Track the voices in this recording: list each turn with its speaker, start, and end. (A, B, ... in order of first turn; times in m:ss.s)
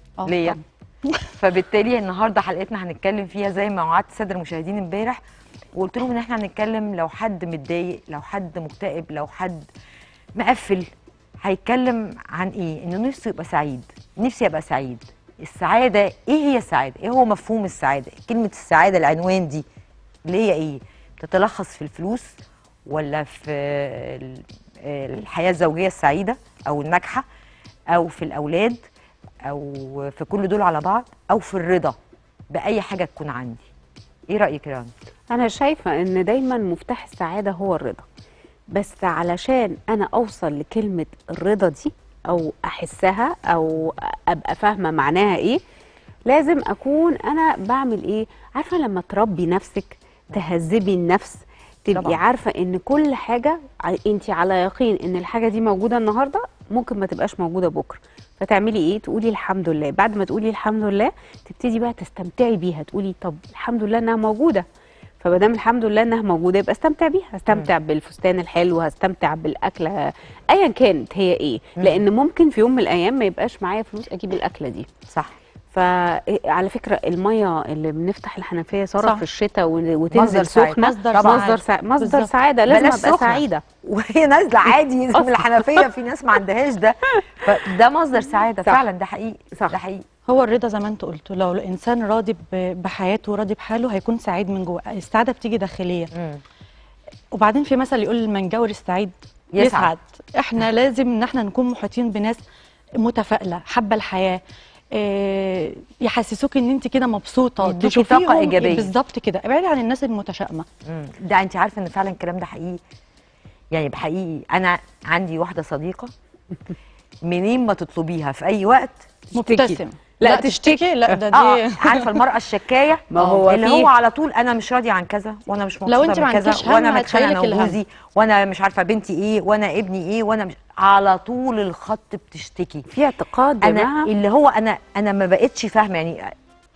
0:00.2-0:00.6 A
0:00.2-0:00.6 B
0:01.4-0:05.2 B
0:05.8-0:09.7 B
0:10.4-0:19.6 B
0:20.3-0:22.3 B
0:22.9-0:27.3 B
0:27.9-0:28.8 B
0:29.4-0:32.0 B
0:32.5-0:33.7 B
0:34.3-0:34.9 B
0:35.3-0:38.1 C
0:38.7-0:45.6 C
0:46.3-1:04.6 C
0:51.9-0:52.2 B
1:05.2-1:14.9 C
1:11.8-1:12.0 B
1:15.1-1:15.4 B
1:15.7-1:23.6 C
1:20.1-1:21.5 B
1:20.8-1:22.3 A
1:22.7-1:30.0 B
1:25.2-1:25.9 C
1:30.3-1:36.1 A
1:36.1-1:36.4 B
1:37.3-1:42.4 A
1:39.5-1:39.9 B
1:43.0-1:44.4 A
1:44.9-1:50.6 A
1:47.6-1:48.9 B
1:50.8-1:52.8 B
1:53.7-1:56.1 B
1:57.2-1:59.1 B
1:59.4-2:00.8 C
1:59.4-2:02.2 A
2:01.2-2:12.9 B
2:03.1-2:03.9 C
2:05.9-2:07.8 A
2:12.9-2:14.1 C
2:13.6-2:16.3 B